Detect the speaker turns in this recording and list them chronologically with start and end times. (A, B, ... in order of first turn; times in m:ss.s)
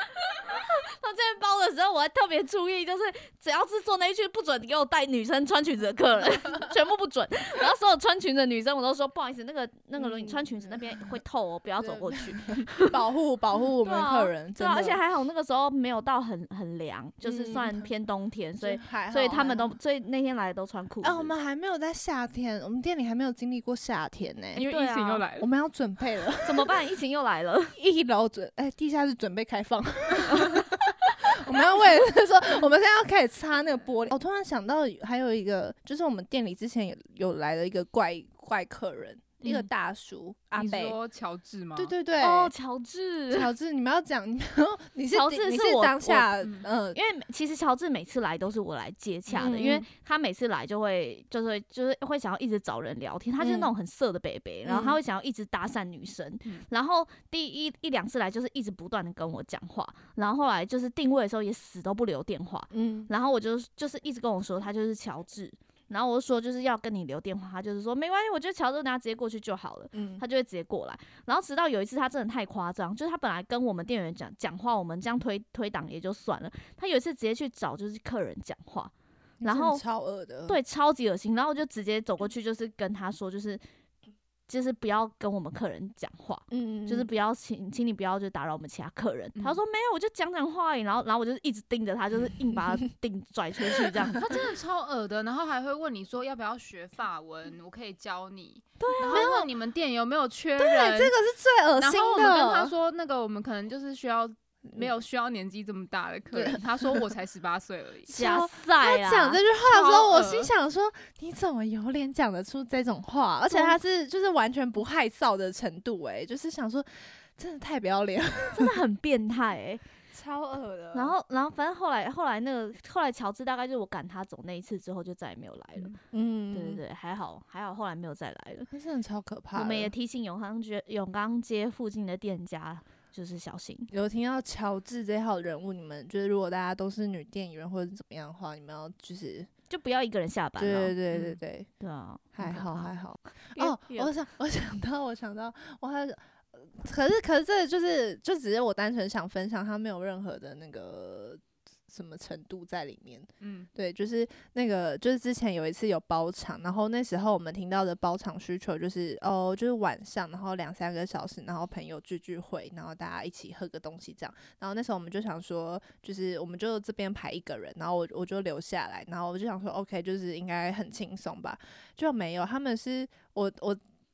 0:00.3-0:12.9 A
0:10.0-0:11.0 B
0:11.8-0:15.0 B
0:13.8-0:21.3 A
0:17.2-0:17.9 B
0:18.6-0:19.7 B
0:21.0-0:24.6 B
0:24.6-0:25.5 C
0:24.6-0:25.2 A
0:25.4-0:26.7 B
0:26.4-0:27.8 A
0:27.8-0:41.0 B
0:39.4-0:39.7 A
0:40.6-0:41.9 C
0:41.8-0:42.5 B
0:42.2-0:43.5 A
0:43.3-0:47.0 B
0:45.1-0:46.3 A
0:46.4-0:46.7 C
0:46.9-1:18.9 A
0:49.3-0:49.8 B
0:53.4-0:53.7 B
0:54.6-0:55.0 B
1:02.7-1:03.1 B
1:09.9-1:10.2 B
1:19.4-1:20.6 B
1:19.4-1:19.8 A
1:20.5-1:23.6 A
1:24.5-1:34.2 A
1:26.5-1:27.1 B
1:33.9-1:34.1 B
1:34.2-1:41.1 C
1:38.8-1:39.3 A
1:39.1-1:39.5 B
1:40.6-1:42.7 B
1:41.8-1:48.1 C
1:46.3-1:47.1 B
1:48.1-1:58.8 B
1:48.1-1:49.4 A
1:49.6-1:50.5 C
1:53.5-1:53.8 A
1:58.5-1:59.8 A
2:00.1-2:01.1 B
2:00.9-2:05.9 A
2:06.1-2:06.8 B
2:06.5-2:08.7 A
2:08.7-2:09.9 B
2:09.5-2:13.9 A
2:13.9-2:19.5 B
2:19.7-2:20.9 A
2:20.6-2:21.7 B
2:21.1-2:21.4 C
2:21.8-2:22.9 A
2:22.3-2:53.8 B
2:23.5-2:24.1 A
2:33.4-2:33.7 C